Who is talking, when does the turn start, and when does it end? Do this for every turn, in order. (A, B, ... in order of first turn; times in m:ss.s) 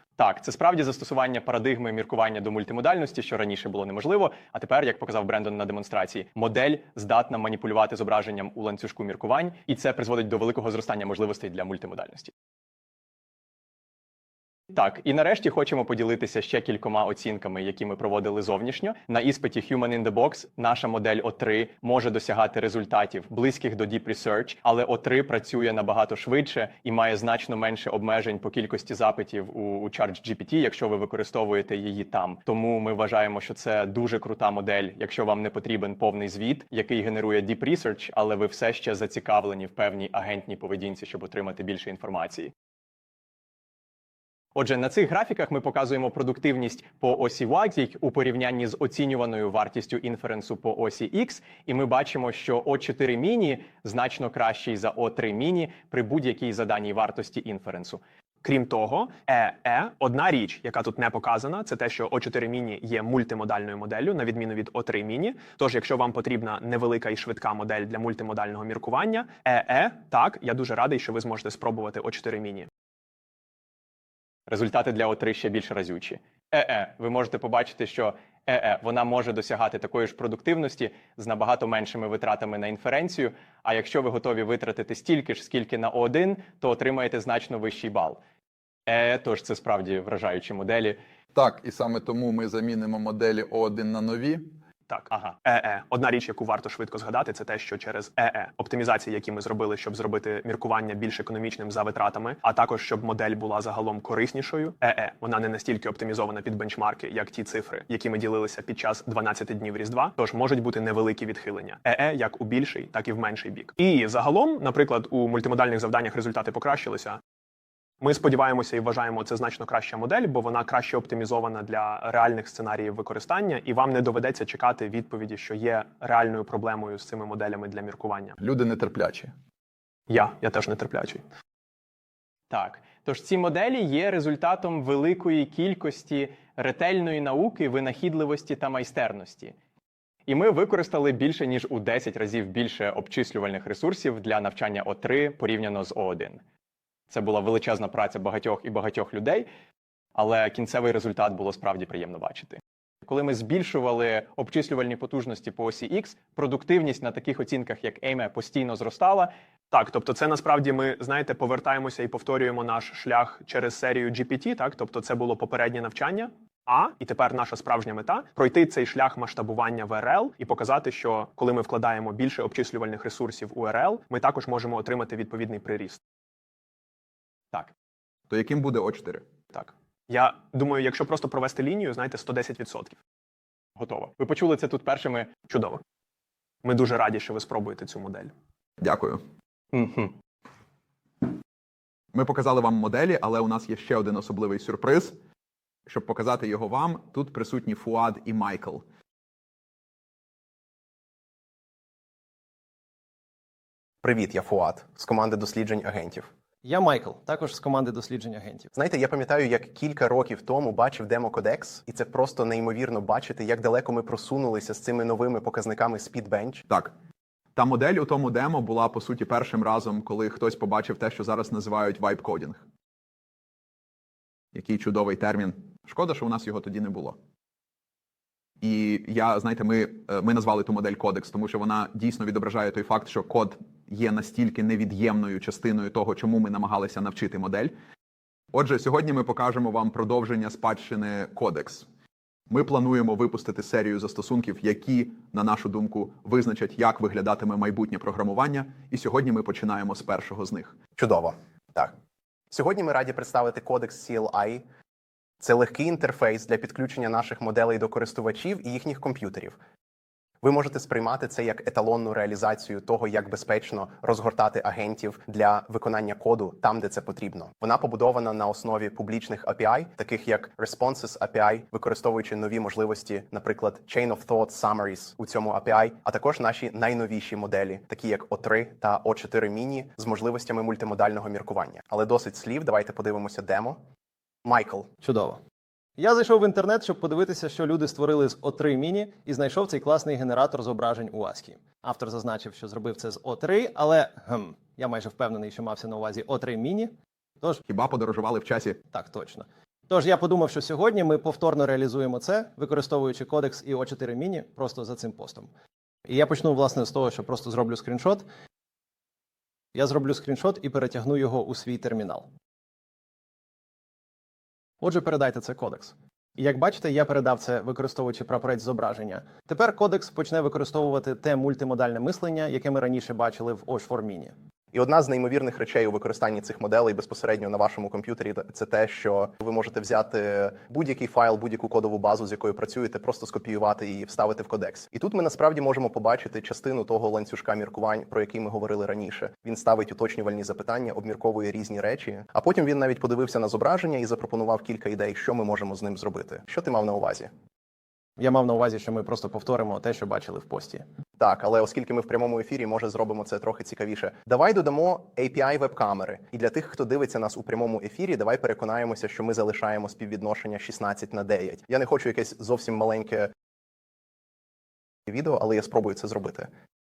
0:00.2-0:12.3 A
0:14.7-0:42.5 A
0:44.6-0:58.0 A
0:58.4-1:12.7 B
1:14.5-1:28.2 A
1:28.9-1:31.0 A
1:31.4-1:34.6 C
1:34.9-1:57.2 B
1:35.1-1:35.4 A
1:58.0-2:08.4 B
2:08.4-2:09.3 C
2:10.1-2:11.2 B
2:12.5-2:19.6 A
2:20.3-2:26.4 A
2:27.1-2:29.5 A
2:30.2-2:39.3 A
2:39.7-2:56.0 B
2:58.3-2:59.3 C
2:59.5-3:03.0 B
3:03.8-3:05.3 A
3:05.5-3:05.8 B
3:06.6-3:08.3 B
3:08.8-3:09.2 C
3:09.7-3:10.1 A
3:12.1-3:15.2 C
3:15.9-3:18.8 C
3:24.0-3:26.3 D
3:26.6-3:28.7 E
3:28.7-3:36.6 D
3:36.7-3:36.9 C
3:37.6-3:42.6 C
3:44.5-3:47.2 C
3:48.6-3:57.8 C
3:58.5-4:01.9 C
4:02.5-4:10.8 C
4:11.0-4:11.9 D
4:12.5-4:14.6 D
4:15.4-4:19.6 D
4:20.4-4:43.8 D
4:44.4-4:44.9 D
4:45.0-4:45.4 E
4:46.0-4:57.6 E
4:57.6-4:58.8 C
4:58.9-5:05.5 E
5:06.1-5:08.3 E
5:09.8-5:12.3 E
5:14.8-5:24.3 E
5:24.7-5:47.3 D
5:48.2-5:50.8 E
5:51.2-6:03.3 D
6:05.1-6:06.5 D